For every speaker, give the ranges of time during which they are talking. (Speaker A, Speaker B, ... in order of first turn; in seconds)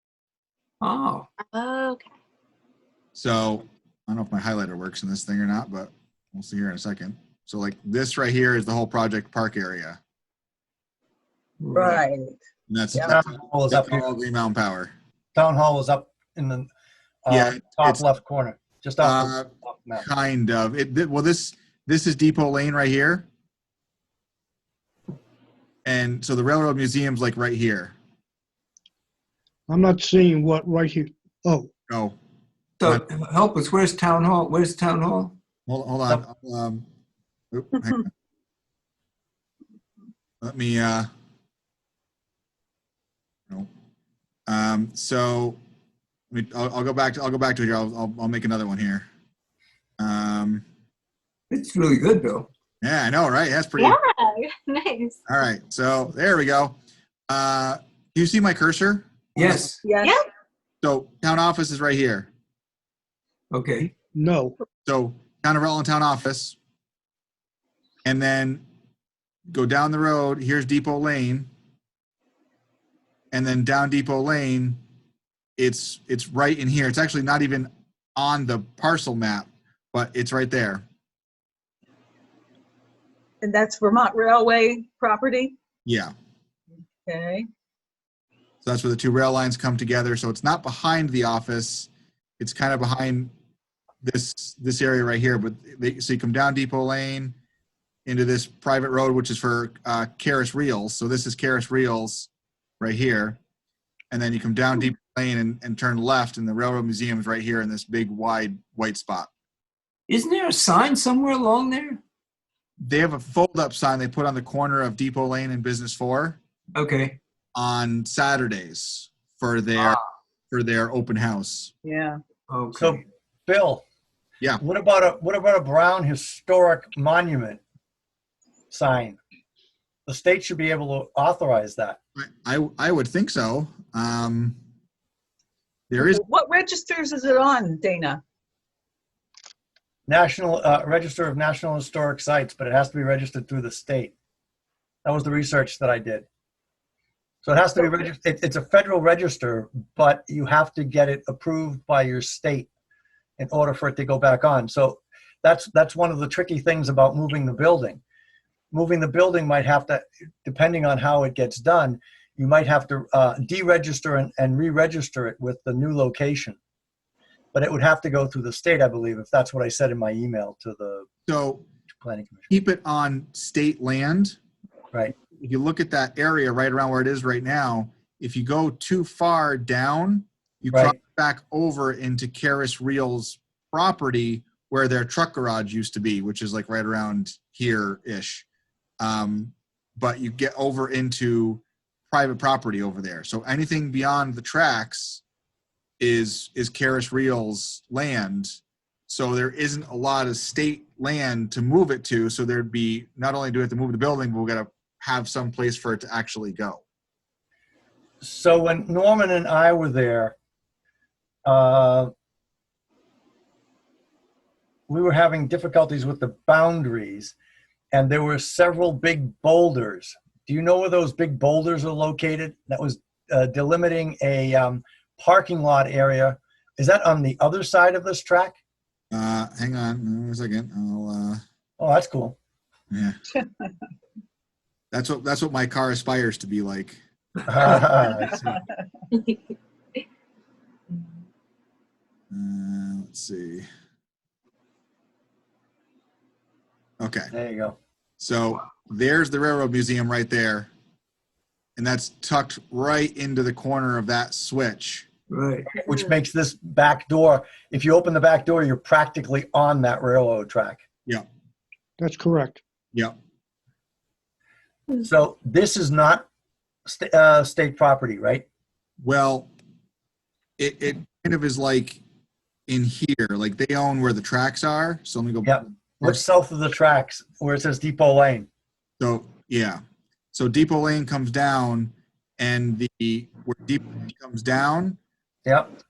Speaker A: 0.8-1.3, 11.6-12.0, 32.8-35.3, 51.5-52.5, 59.4-59.8, 63.5-63.9, 110.1-112.0, 116.7-117.2, 122.5-123.0, 255.3-255.7
Speaker B: 1.5-2.1, 53.8-55.2
Speaker C: 3.1-10.0, 12.7-14.9, 17.3-18.0, 19.0-23.2, 25.8-27.9, 31.9-32.1, 35.7-36.8, 37.5-38.1, 40.4-41.1, 44.5-45.6, 46.3-49.0, 50.0-50.6, 52.8-54.0, 55.3-56.8, 57.3-59.7, 60.8-62.3, 64.8-66.6, 68.0-68.6, 69.5-71.5, 73.3-74.8, 75.6-80.8, 85.8-86.1, 88.6-93.3, 94.0-97.3, 98.0-102.3, 102.8-103.4, 104.1-109.3, 112.8-116.4, 117.5-121.7, 132.2-134.6, 135.9-136.2, 171.3-171.6, 172.5-174.4, 175.4-188.4, 189.0-195.2, 196.0-206.8, 229.1-231.4, 232.9-233.2, 234.9-237.0, 242.3-243.7, 247.0-247.3, 248.2-250.7, 251.8-255.1, 269.0-269.5, 270.6-272.0, 272.7-276.2, 279.0-279.8, 280.3-285.0
Speaker D: 11.7-12.3, 59.8-60.1, 83.4-85.5, 87.0-87.4, 121.8-122.2, 136.0-138.2, 238.3-238.6
Speaker E: 13.0-14.1, 15.3-16.7, 17.2-20.1, 122.7-123.8, 124.6-127.6, 128.7-129.2, 130.1-132.0, 140.1-144.1, 145.0-146.3, 147.4-152.7, 153.4-158.0, 158.7-166.6, 167.5-171.1, 171.9-172.5, 180.7-181.0, 208.2-210.3, 211.4-212.1, 214.9-217.3, 217.9-228.5, 231.8-232.4, 237.5-238.6, 247.3-247.8, 255.8-260.8, 265.0-266.2, 266.9-268.4, 275.4-278.5, 285.4-285.7
Speaker F: 29.7-31.7, 63.8-64.5, 262.0-262.6